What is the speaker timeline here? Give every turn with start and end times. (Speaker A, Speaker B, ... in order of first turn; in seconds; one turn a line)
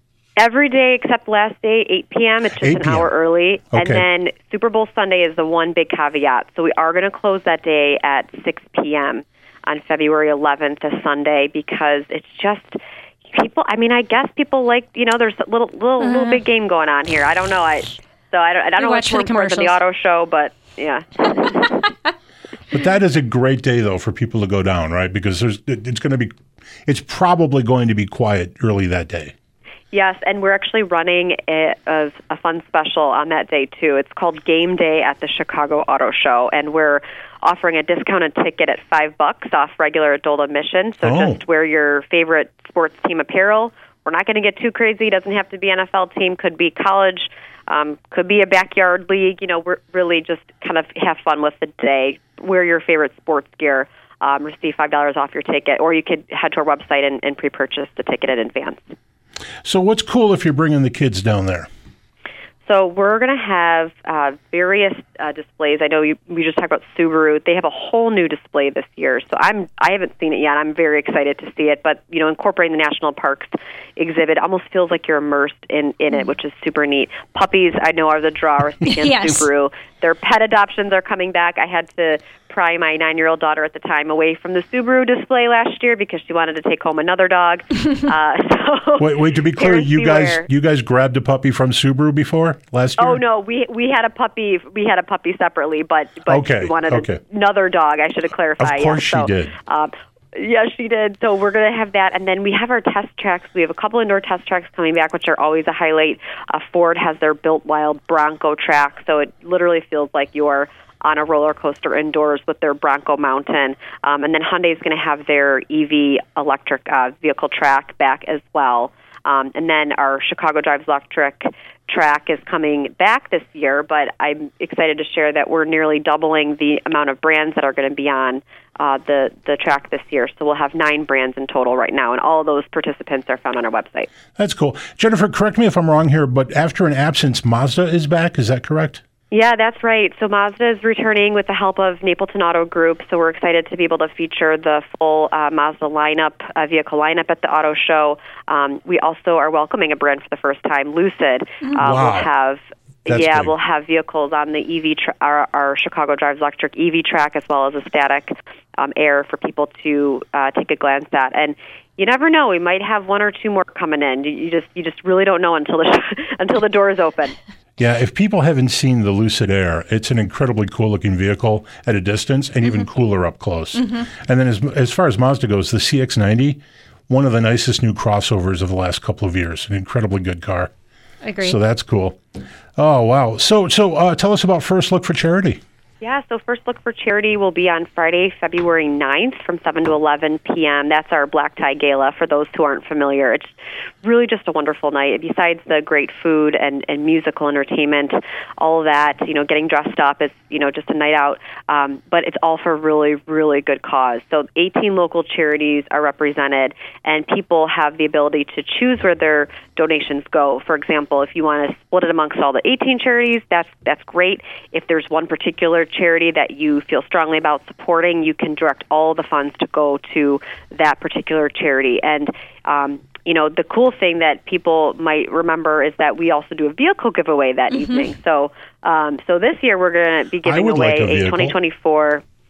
Speaker A: 0.4-12.8
Speaker B: 2.6-3.1
Speaker B: 3.7-4.0
Speaker A: 13.3-21.6
Speaker C: 16.0-16.4
Speaker C: 18.8-19.8
Speaker B: 22.7-26.3
Speaker B: 26.9-29.3
Speaker A: 29.9-58.8
Speaker B: 41.0-41.4
Speaker B: 59.6-61.7
Speaker A: 62.6-90.5
Speaker C: 78.8-79.5
Speaker B: 89.0-93.2
Speaker A: 93.0-134.1
Speaker B: 96.3-97.2
Speaker B: 98.6-99.5
Speaker B: 134.3-139.0
Speaker A: 139.3-167.3
Speaker B: 151.8-152.3
Speaker B: 153.1-153.5
Speaker B: 167.8-180.7
Speaker C: 173.8-174.0
Speaker C: 181.2-181.6
Speaker B: 181.4-182.2
Speaker B: 182.8-185.6
Speaker A: 186.0-232.2
Speaker C: 227.7-228.0
Speaker B: 230.4-231.6